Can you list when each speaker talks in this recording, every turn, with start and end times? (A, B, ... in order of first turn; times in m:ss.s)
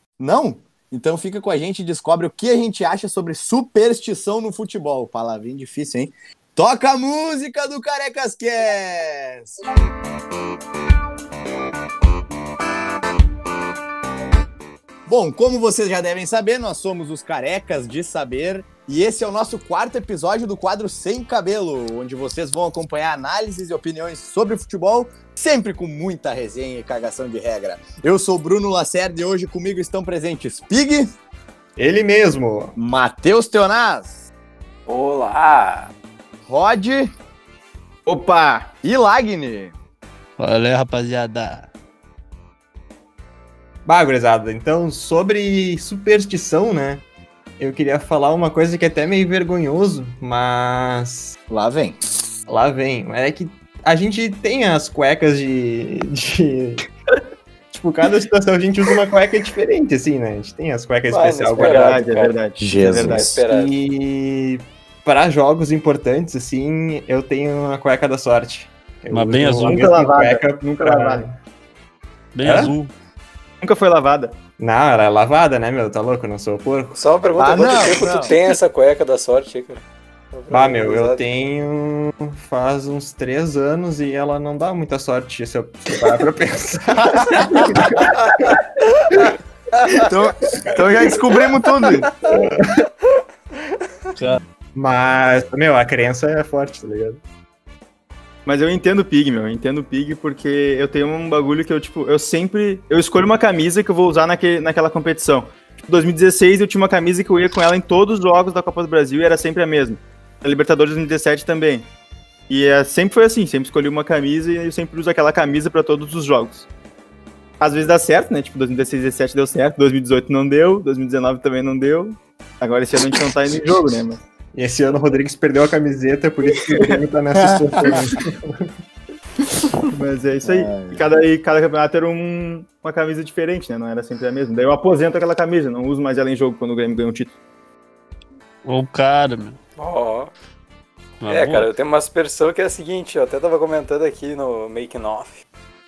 0:00.2-0:09.6 A
0:15.0-0:31.1 A
0:31.8-0:32.7 B
0:32.8-0:34.2 A
0:34.9-0:35.9 C
0:36.4-0:37.1 A
0:38.0-0:38.7 D
0:38.8-0:39.7 A
0:40.4-0:41.7 E
0:43.8-0:47.0 B
0:47.6-0:51.4 B
0:51.5-0:52.0 A
0:52.4-0:56.8 B
0:57.7-1:02.0 B
1:01.1-1:02.4 C
1:01.5-1:03.4 D
1:02.6-1:03.4 A
1:02.9-1:11.3 B
1:03.2-1:03.7 C
1:09.1-1:09.8 E
1:09.6-1:11.2 D
1:12.3-1:12.9 E
1:12.4-1:12.8 B
1:13.6-1:14.4 D
1:14.6-1:17.0 B
1:16.9-1:21.2 C
1:17.4-1:18.4 A
1:20.5-1:28.5 B
1:30.0-1:32.1 A
1:32.2-1:32.8 B
1:34.2-1:34.4 E
1:34.7-1:37.2 B
1:38.4-1:51.9 D
1:52.5-1:56.7 D
1:57.6-2:04.2 D
2:04.5-2:08.7 B
2:09.9-2:17.3 D
2:10.4-2:11.0 A
2:18.6-2:19.6 E
2:19.8-2:20.3 C
2:21.2-2:21.7 E
2:21.2-2:25.4 C